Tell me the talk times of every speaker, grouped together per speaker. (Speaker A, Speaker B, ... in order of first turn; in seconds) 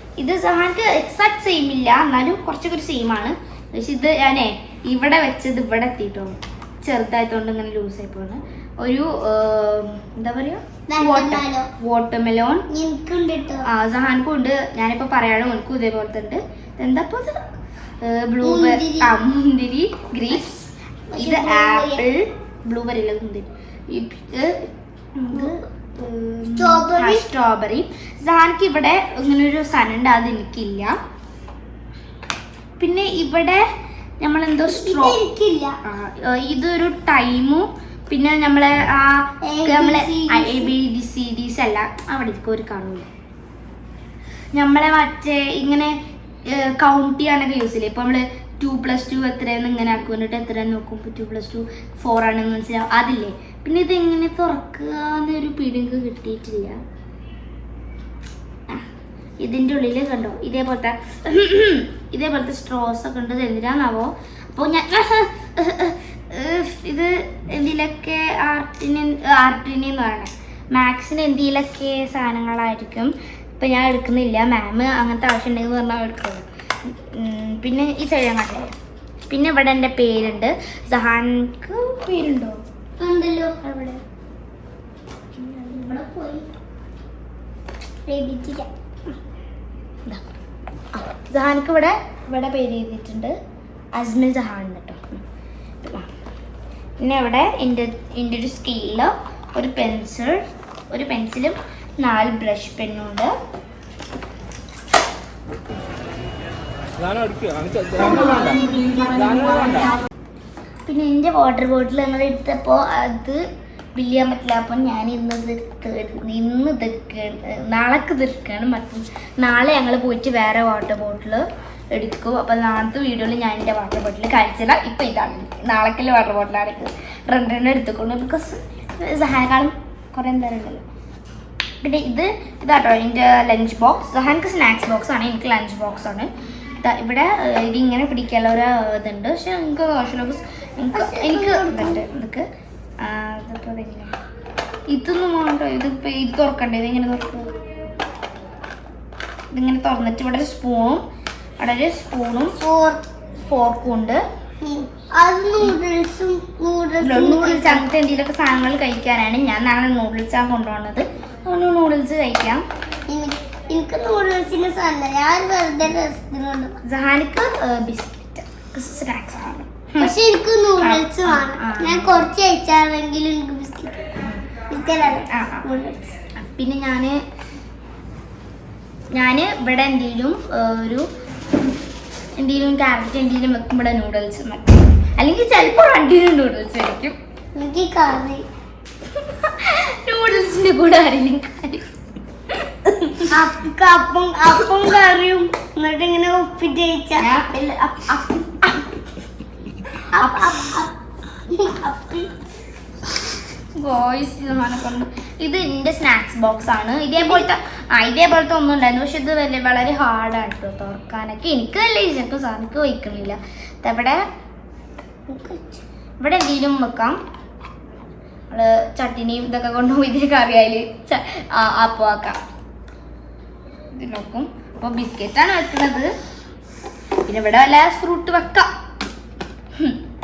Speaker A: 0.2-12.7, 13.7-17.3, 18.0-20.6, 21.2-30.9, 32.8-33.6, 34.2-35.2, 35.9-43.1, 44.5-46.0, 46.5-56.8, 59.4-78.7, 79.3-82.6, 83.6-84.0, 90.9-93.3, 93.9-95.2, 95.8-96.1, 97.0-103.3, 110.8-113.4, 113.9-130.8, 131.8-142.4, 143.0-144.1, 144.9-147.5, 149.5-151.0, 151.6-152.6, 153.3-154.2, 157.0-162.6, 166.8-170.1, 170.8-172.3, 175.3-175.7, 176.4-177.2, 179.1-181.1, 182.4-187.2, 189.2-191.8, 192.5-193.3, 197.2-198.9, 200.2-200.5, 203.8-214.2, 216.2-217.2, 218.5-222.4, 223.9-226.1, 227.2-228.7
Speaker B: 10.9-11.7, 12.7-13.6, 18.4-19.1, 21.1-22.0, 26.5-27.3, 34.7-35.8, 39.4-40.7, 83.0-83.5, 85.4-86.5, 88.1-88.7, 140.9-142.0, 152.6-153.0, 154.6-157.9, 163.1-166.8, 170.0-174.0, 174.7-176.1, 187.5-188.4, 193.3-197.2, 200.1-200.9, 201.5-202.3, 207.2-207.5, 215.3-215.8
Speaker C: 107.0-110.0